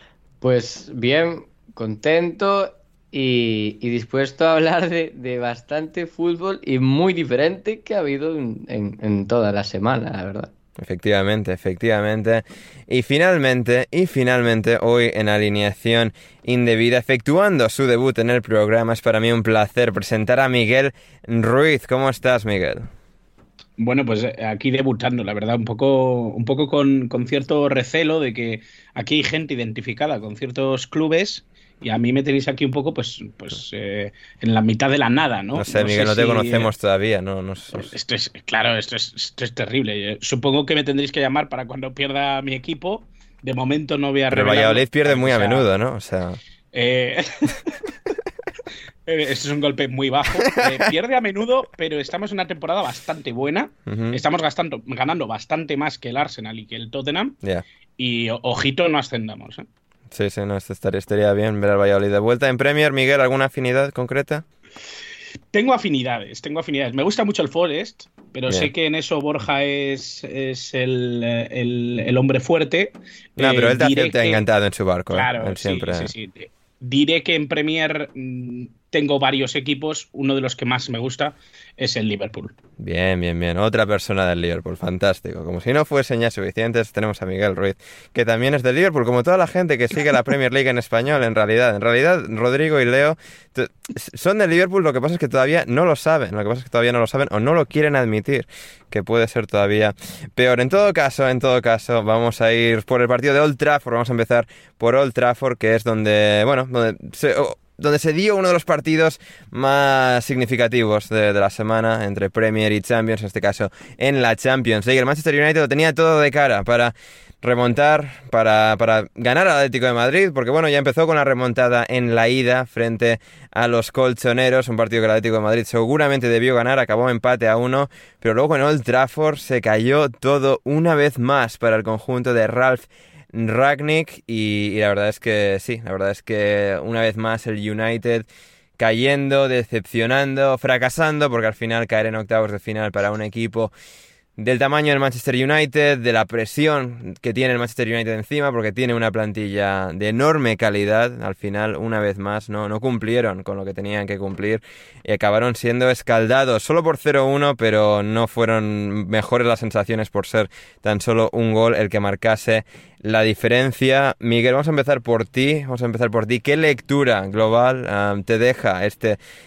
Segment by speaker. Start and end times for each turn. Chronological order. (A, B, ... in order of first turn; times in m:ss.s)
0:00.4-0:10.5 A
0:10.8-0:22.9 B
0:23.8-0:36.7 C
0:35.6-0:37.8 B
0:37.8-0:45.7 C
0:44.3-0:46.4 B
0:46.7-0:47.6 C
0:49.0-0:57.4 C
0:50.5-0:50.8 B
0:53.9-0:54.2 B
0:58.0-0:59.7 C
1:00.1-1:04.4 B
1:05.5-1:14.5 C
1:13.4-1:16.1 B
1:15.1-1:22.6 C
1:22.8-2:23.7 B
2:24.4-2:49.2 B